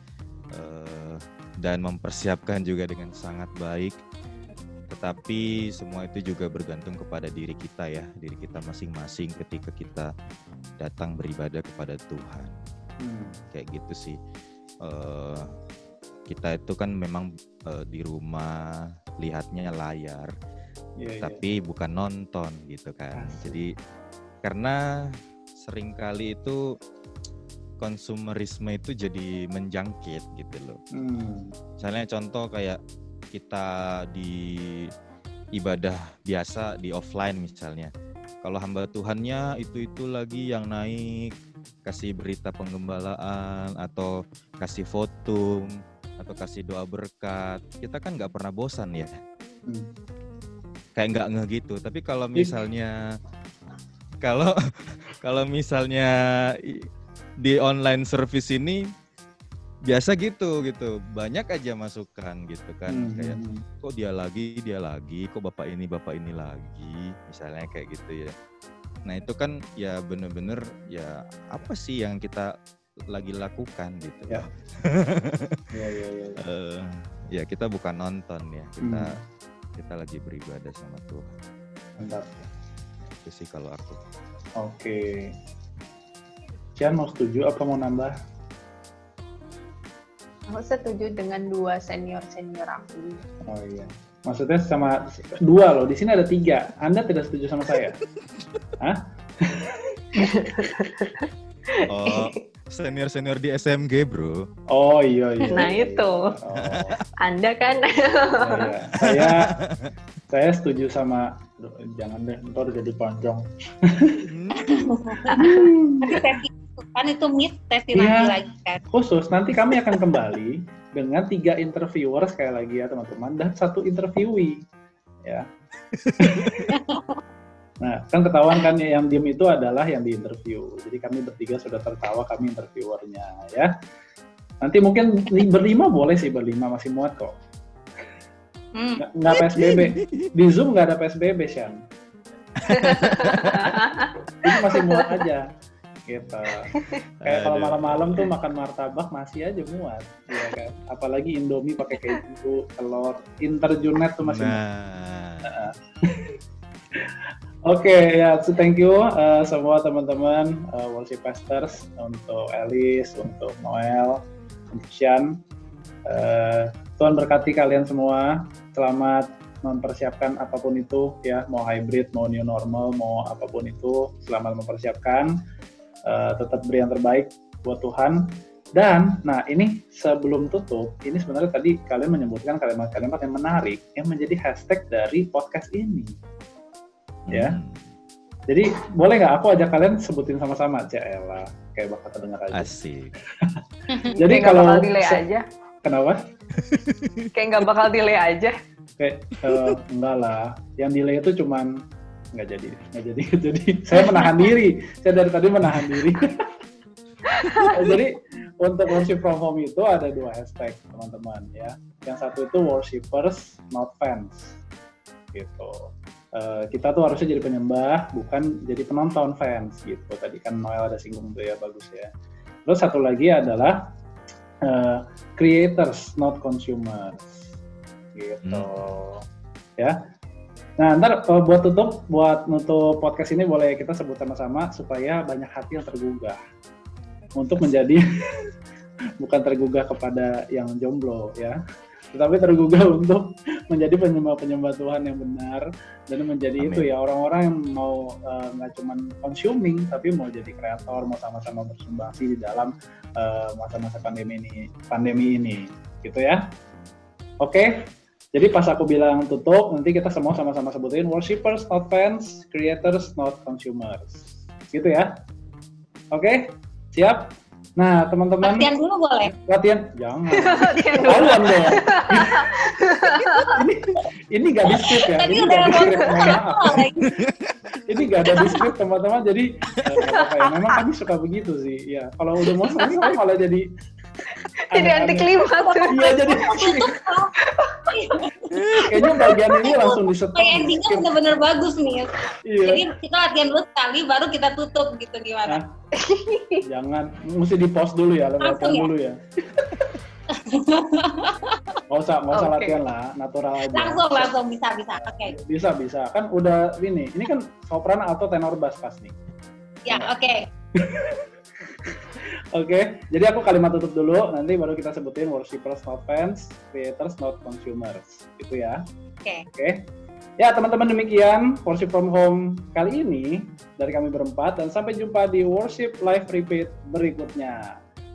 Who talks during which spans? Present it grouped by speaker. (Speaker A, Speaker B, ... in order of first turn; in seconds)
Speaker A: 0.5-4.0, 4.9-10.1, 10.8-12.6, 13.5-14.2, 14.8-15.5, 16.3-20.3, 21.2-23.8, 24.4-26.7, 27.8-30.8, 31.8-32.8, 33.3-34.9, 35.6-37.9, 38.4-41.3, 41.9-45.7, 46.2-49.1, 51.0-53.0, 54.2-56.9, 57.4-58.8, 59.9-68.3, 69.1-72.5, 73.1-75.7, 76.4-79.2, 79.8-81.3, 83.2-84.0, 101.9-104.5, 106.5-107.0, 109.0-109.9, 114.3-114.7, 125.9-126.7, 139.6-140.3, 142.7-143.8, 147.2-148.3, 154.2-155.6, 187.3-187.8, 192.5-193.1, 196.6-197.3, 228.4-228.9, 246.6-246.9, 277.0-277.4
Speaker B: 13.0-13.4, 21.0-21.4, 23.2-23.6, 30.9-31.6, 49.7-49.9, 62.9-63.6, 75.7-76.4, 78.8-79.2, 82.0-82.5, 84.6-85.4, 86.8-88.1, 93.5-98.0, 98.8-100.9, 104.7-107.0, 108.4-109.6, 110.3-114.3, 115.3-116.4, 117.9-118.4, 118.9-124.7, 126.2-126.7, 127.8-133.7, 134.6-137.4, 139.0-141.8, 144.4-145.5, 146.1-154.6, 155.4-156.4, 157.7-165.4, 166.1-175.3, 176.1-186.1, 187.3-187.6, 188.5-192.7, 194.2-195.2, 195.8-196.2, 199.0-206.5, 207.4-214.6, 215.3-222.1, 222.7-223.9, 224.6-227.5, 228.2-229.2, 230.8-236.4, 237.4-238.5, 239.2-241.6, 242.1-256.4, 257.4-265.2, 266.1-268.7, 269.2-272.7, 273.3-276.9, 277.9-283.7, 284.7-285.3, 285.9-287.0, 288.7-291.2, 292.4-292.9, 295.5-295.8, 296.6-299.9, 301.9-304.3, 305.1-309.1, 309.9-310.1, 310.8-318.8, 319.5-327.8
Speaker C: 90.5-93.2, 100.2-102.3, 105.5-106.3, 107.2-108.7, 115.3-115.6, 142.7-145.2, 146.7-147.0, 194.1-195.4, 197.3-198.6, 207.3-207.9, 270.3-273.6, 280.1-280.3, 282.7-283.1, 284.4-286.8, 287.4-288.1, 289.0-289.5, 295.9-296.6, 302.3-302.8
Speaker D: 114.6-118.8, 126.7-127.2, 138.7-139.7, 268.4-269.3, 274.7-277.2, 278.3-278.7, 285.6-295.6, 298.4-298.9, 300.3-301.8, 303.7-305.4, 309.9-310.5